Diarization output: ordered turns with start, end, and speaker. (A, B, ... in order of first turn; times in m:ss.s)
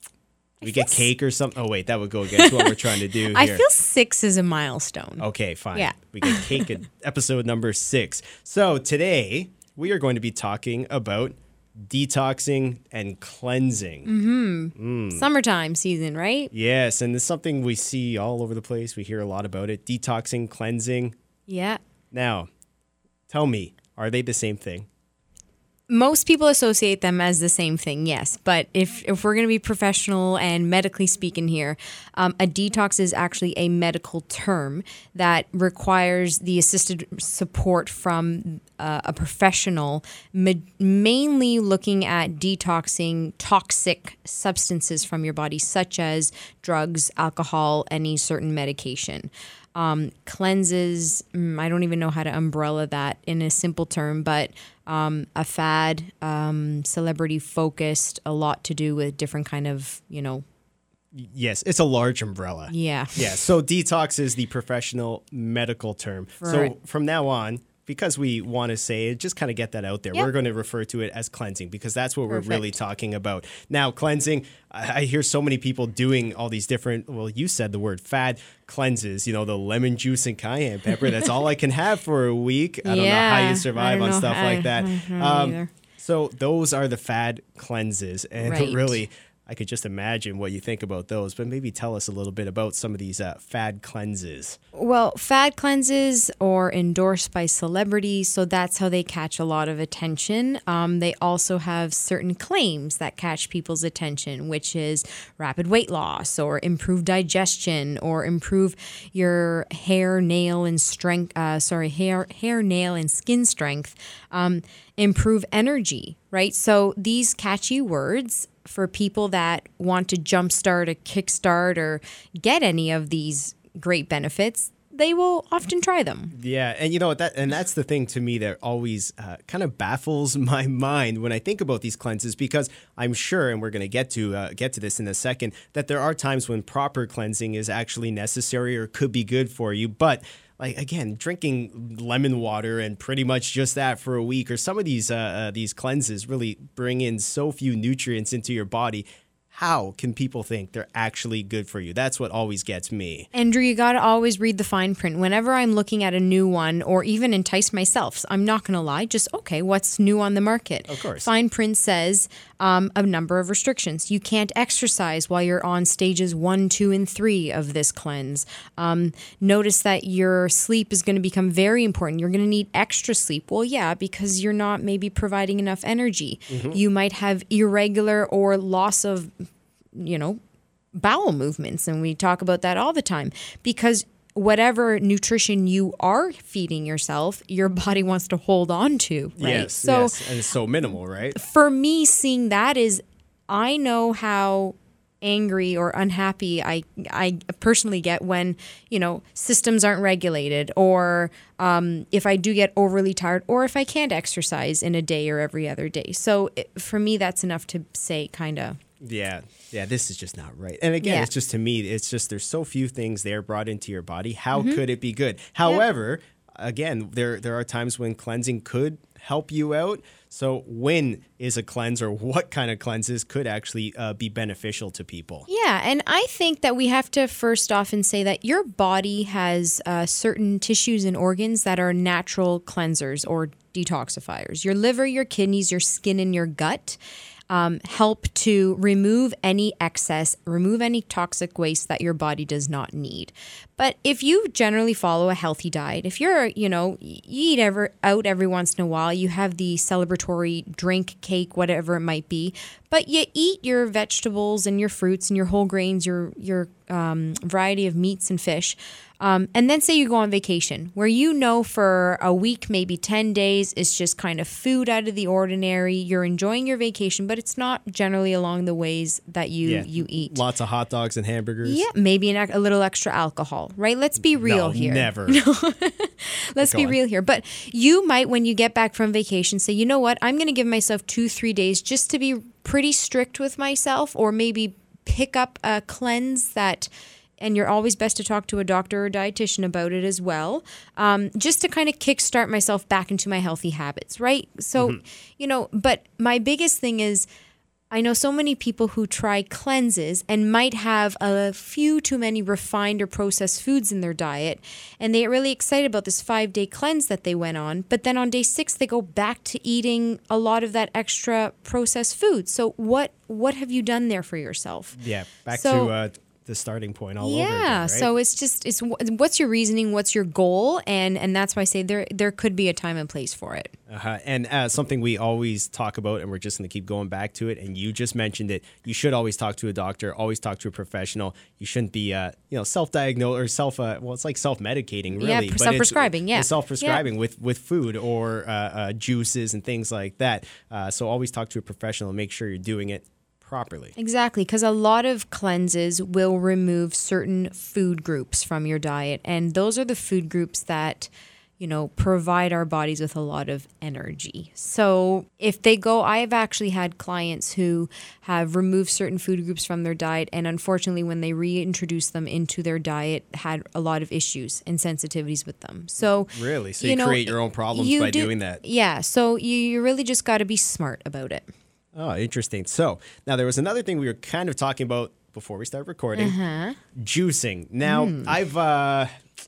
0:00.6-0:01.1 A
0:00.6-0:03.6 B
0:02.3-0:06.7 A
0:05.2-0:14.1 B
0:14.0-0:16.5 A
0:14.8-0:15.2 B
0:16.5-0:21.1 B
0:21.5-0:21.8 A
0:22.1-0:22.5 B
0:23.3-0:24.9 B
0:25.9-1:00.4 A
1:01.1-1:34.6 B
1:02.7-1:03.3 A
1:06.4-1:06.7 A
1:12.3-1:12.7 A
1:22.8-1:25.7 A
1:28.4-1:29.0 A
1:34.7-2:06.3 A
2:06.3-2:33.3 B
2:33.3-2:59.3 A
2:40.9-2:41.3 B
2:56.5-2:56.8 B
2:59.9-3:00.4 A
3:00.9-3:10.2 A
3:09.4-3:11.4 B
3:11.3-3:28.8 A
3:29.0-3:45.5 B
3:31.0-3:31.3 A
3:34.5-3:34.8 A
3:45.5-4:30.4 A
4:29.6-4:31.8 B
4:31.6-4:57.3 A
4:34.4-4:35.4 B
4:36.6-4:37.0 B
4:57.9-5:15.0 A
5:14.9-5:18.1 B
5:15.5-5:15.9 A
5:17.2-5:23.7 A
5:23.9-5:43.9 B
5:35.1-5:37.0 A
5:44.0-6:11.5 A
6:06.0-6:08.6 B
6:11.9-6:16.4 B
6:16.1-6:16.8 A
6:16.9-6:19.1 B
6:17.8-6:18.3 A